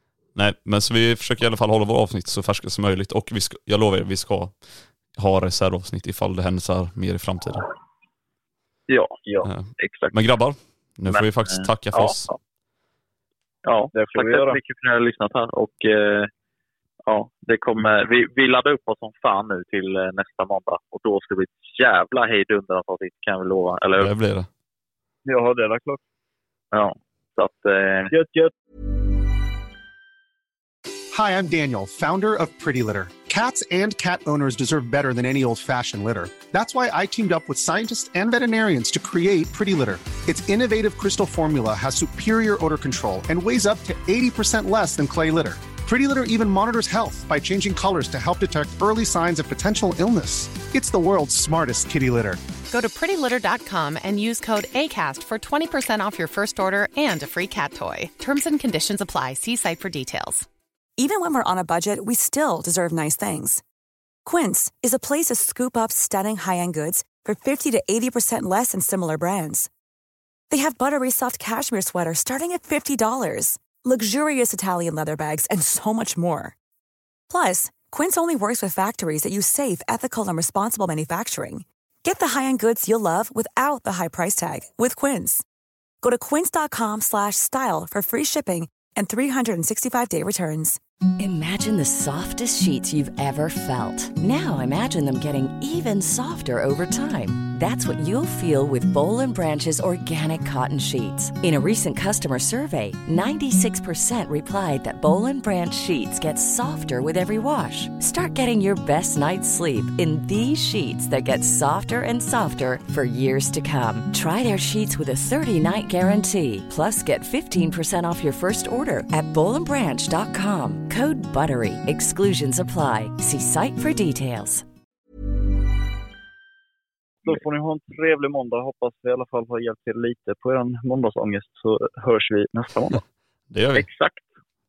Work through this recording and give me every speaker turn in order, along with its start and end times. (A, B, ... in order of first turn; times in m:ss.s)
0:00.4-0:04.6 A
0:05.1-0:07.6 A
0:08.9-0:09.2 B
0:09.4-0:12.3 A
0:09.8-0:10.1 B
0:11.1-0:12.3 B
0:13.6-0:16.3 B
0:13.9-0:14.6 C
0:17.1-0:24.1 B
0:24.0-0:24.5 A
0:25.2-0:26.0 C
0:26.7-0:28.1 B
0:28.1-0:28.5 C
0:31.1-0:52.4 D
0:52.7-1:00.5 E
1:01.0-1:03.6 F
1:04.2-1:09.7 F
1:10.5-1:16.5 F
1:17.3-1:25.4 F
1:26.0-1:30.8 F
1:31.2-2:04.6 G
2:07.2-2:13.0 C
2:13.5-2:13.8 A
2:13.7-2:14.2 B